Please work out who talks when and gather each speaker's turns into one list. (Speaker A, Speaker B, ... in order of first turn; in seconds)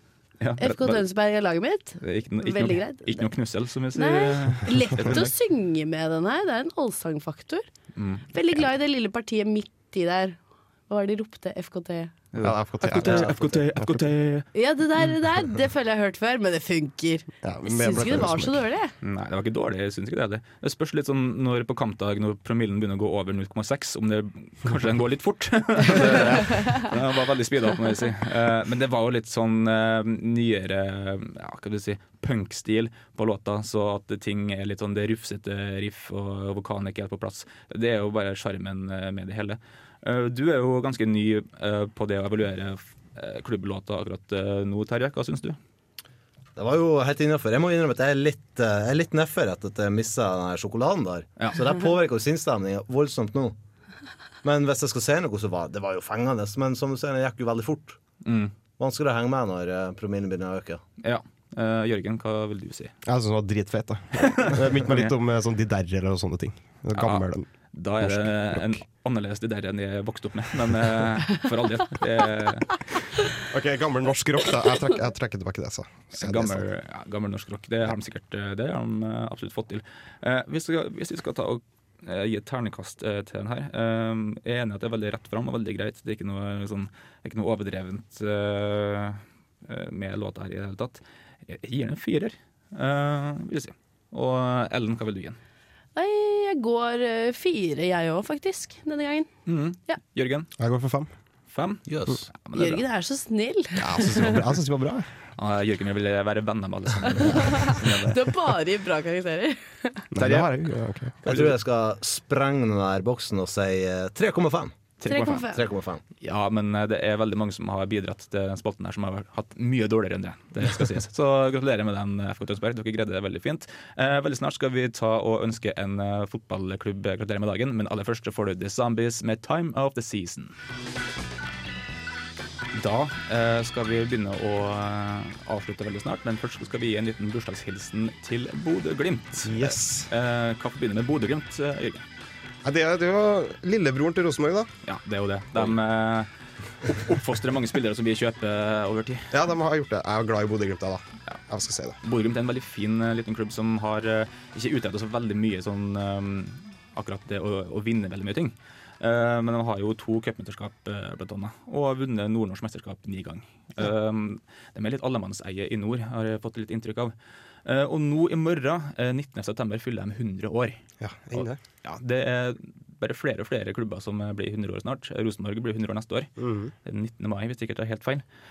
Speaker A: 0.4-1.1, 2.0-5.3, 8.0-8.3, 12.3-14.5, 19.0-45.6, 58.2-58.5, 61.0-62.9, 64.2-65.1, 67.0-72.8, 76.1-95.4, 99.5-100.5, 101.5-102.8, 105.4-108.2, 110.2-110.5, 111.3-111.5, 115.0-115.5, 116.2-130.5, 132.7-142.0, 144.8-146.3, 146.9-149.3, 152.0-167.1, 167.7-176.3, 176.8-178.2
Speaker B: 0.6-3.3, 3.9-7.7, 8.3-12.2, 14.5-18.9, 96.0-99.3, 102.5-104.3, 107.2-110.1, 115.1-115.6
Speaker C: 12.4-14.1, 17.4-18.6, 63.0-67.5, 68.0-68.8, 73.5-76.7, 100.6-101.1, 103.8-105.1, 110.1-111.2, 139.4-140.1, 142.6-144.7, 149.3-152.0, 171.0-171.6, 176.4-176.7
Speaker D: 13.1-13.4, 46.6-53.5, 54.4-58.0, 58.8-60.8, 101.9-102.2, 111.2-114.8, 115.5-116.0